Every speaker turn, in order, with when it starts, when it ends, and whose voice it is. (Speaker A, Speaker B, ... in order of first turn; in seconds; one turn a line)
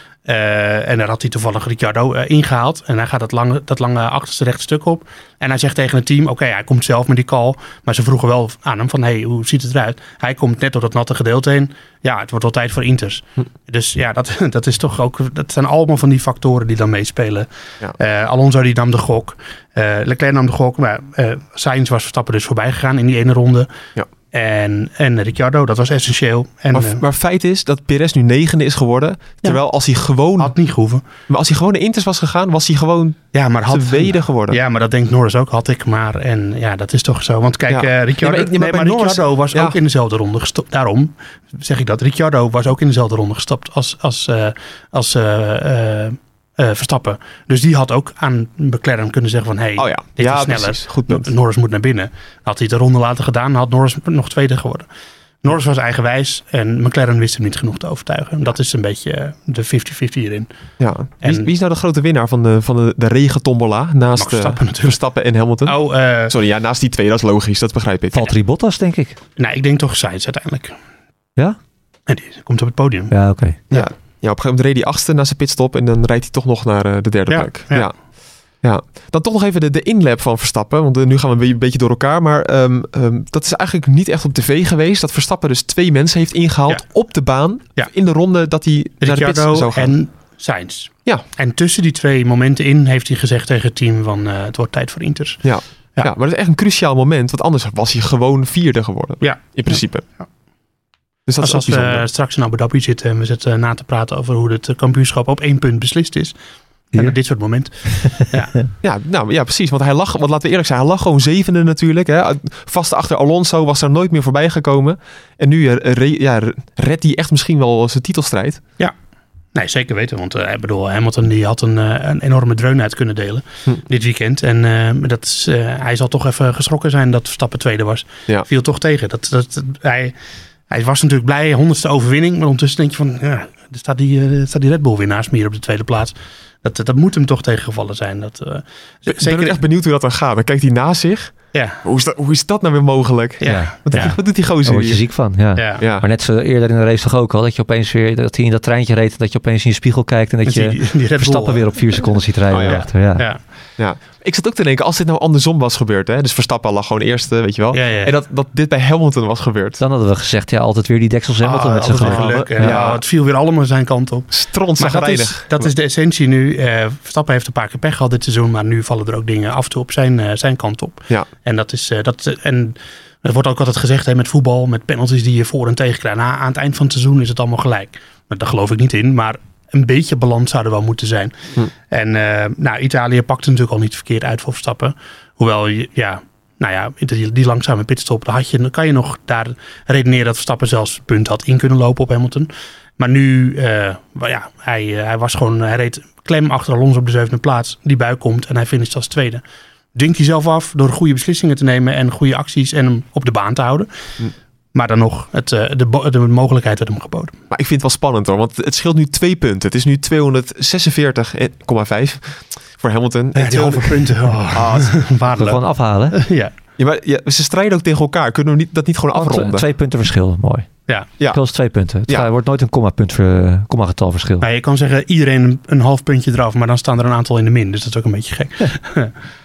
Speaker A: 0.3-23.7
Speaker A: 24.3-27.0
Speaker B: 26.7-30.5
Speaker A: 29.4-31.1
Speaker B: 31.3-34.6
Speaker A: 33.3-54.9
Speaker B: 37.7-39.8
Speaker B: 49.8-51.3
Speaker A: 55.4-60.5
Speaker B: 60.8-68.3
Speaker A: 61.2-61.5
Speaker A: 64.2-65.1
Speaker A: 65.6-66.3
Speaker C: 68.1-69.2
Speaker A: 69.4-70.8
Speaker A: 72.1-73.2
Speaker C: 73.1-73.6
Speaker B: 73.7-89.9
Speaker A: 77.3-78.0
Speaker A: 86.7-87.9
Speaker A: 89.0-96.1
Speaker B: 95.4-100.1
Speaker A: 99.2-100.3
Speaker B: 101.3-102.1
Speaker A: 101.4-106.3
Speaker A: 106.9-108.6
Speaker C: 107.8-108.7
Speaker B: 108.8-118.6
Speaker A: 119.5-130.2
Speaker A: 130.7-139.6
Speaker B: 139.1-145.1
Speaker A: 141.5-141.8
Speaker A: 143.4-144.2
Speaker C: 143.4-153.3
Speaker A: 145.6-145.8
Speaker B: 145.8-146.1
Speaker A: 150.4-153.5
Speaker B: 152.5-153.1
Speaker B: 153.8-159.8
Speaker A: 157.7-158.1
Speaker C: 159.8-162.8
Speaker A: 161.4-199.4
Speaker B: 161.9-163.0
Speaker B: 164.3-165.7
Speaker A: 199.9-203.9
Speaker A: 204.7-207.4
Speaker B: 207.5-215.1
Speaker A: 213.3-216.5
Speaker C: 215.4-216.2
Speaker B: 216.8-219.7
Speaker C: 219.1-224.5
Speaker B: 221.2-222.3
Speaker A: 224.4-229.1